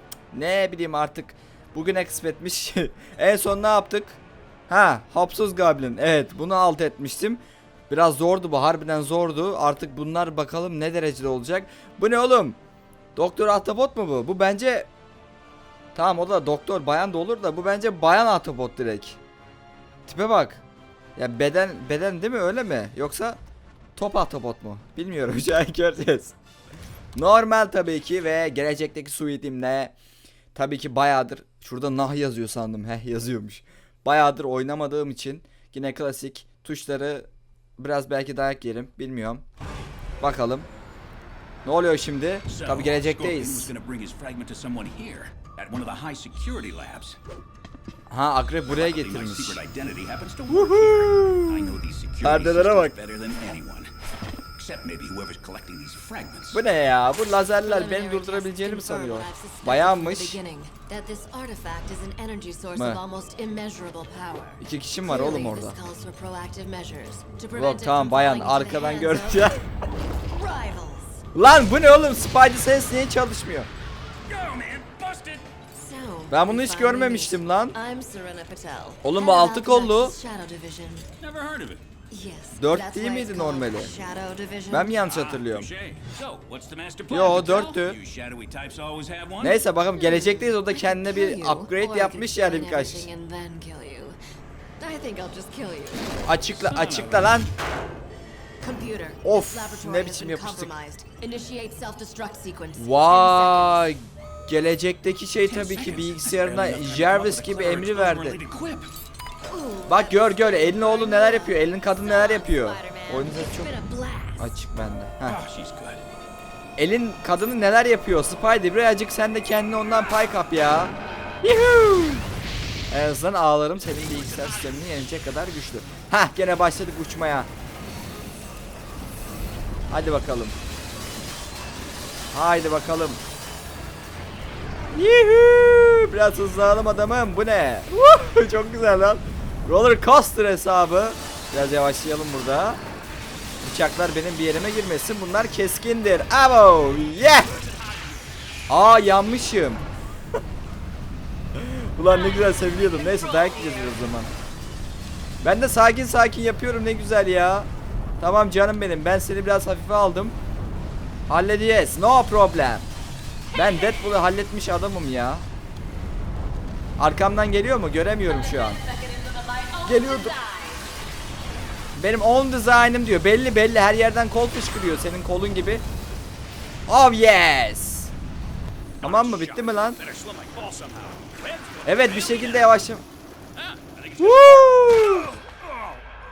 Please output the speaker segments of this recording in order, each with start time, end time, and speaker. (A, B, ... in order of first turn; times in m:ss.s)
0:00.3-0:12.6 A
0:13.2-0:14.9 A
0:15.9-0:19.2 A
0:20.0-0:20.6 A
0:21.2-0:23.4 A
0:24.0-0:26.4 A
0:27.1-0:29.9 A
0:30.5-0:39.4 A
0:40.2-0:40.7 A
0:41.6-0:43.7 A
0:42.5-0:47.2 B
0:48.1-0:49.6 A
0:48.7-0:53.9 B
0:50.5-0:52.9 A
0:54.6-0:56.6 B
0:56.5-1:00.4 A
0:57.4-1:09.7 C
1:02.7-1:03.0 A
1:04.6-1:05.8 A
1:07.5-1:09.6 A
1:10.3-1:11.2 C
1:11.3-1:13.7 A
1:14.3-1:15.5 B
1:15.7-1:21.1 C
1:16.3-1:17.7 A
1:19.0-1:20.1 A
1:21.2-1:21.8 B
1:22.1-1:25.1 C
1:22.6-1:23.9 A
1:24.7-1:25.7 A
1:25.0-1:29.6 B
1:27.1-1:28.0 A
1:29.4-1:33.1 A
1:29.7-1:34.2 C
1:34.8-1:36.2 C
1:36.2-1:37.5 A
1:36.5-1:37.4 B
1:38.6-1:43.9 C
1:39.2-1:40.7 A
1:42.8-1:48.4 A
1:45.4-1:48.9 B
1:49.5-1:54.4 C
1:49.9-1:53.7 A
1:54.4-1:55.4 A
1:55.2-1:56.0 B
1:56.8-2:02.2 A
2:02.9-2:07.5 A
2:04.1-2:04.8 B
2:09.9-2:10.6 A
2:12.3-2:13.2 A
2:14.9-2:22.8 A
2:23.6-2:27.6 A
2:27.6-2:28.3 B
2:28.7-2:29.8 A
2:31.5-2:34.3 A
2:32.0-2:34.1 C
2:35.4-2:37.7 A
2:38.2-2:40.4 A
2:41.3-2:42.8 A
2:43.5-2:44.0 C
2:43.5-2:45.4 A
2:47.0-2:48.8 A
2:48.2-2:50.9 C
2:49.8-2:50.3 A
2:52.0-2:55.8 A
2:56.9-2:58.1 A
2:59.0-3:02.8 B
2:59.0-3:00.0 A
3:01.8-3:03.0 A
3:03.6-3:05.8 B
3:04.2-3:05.3 A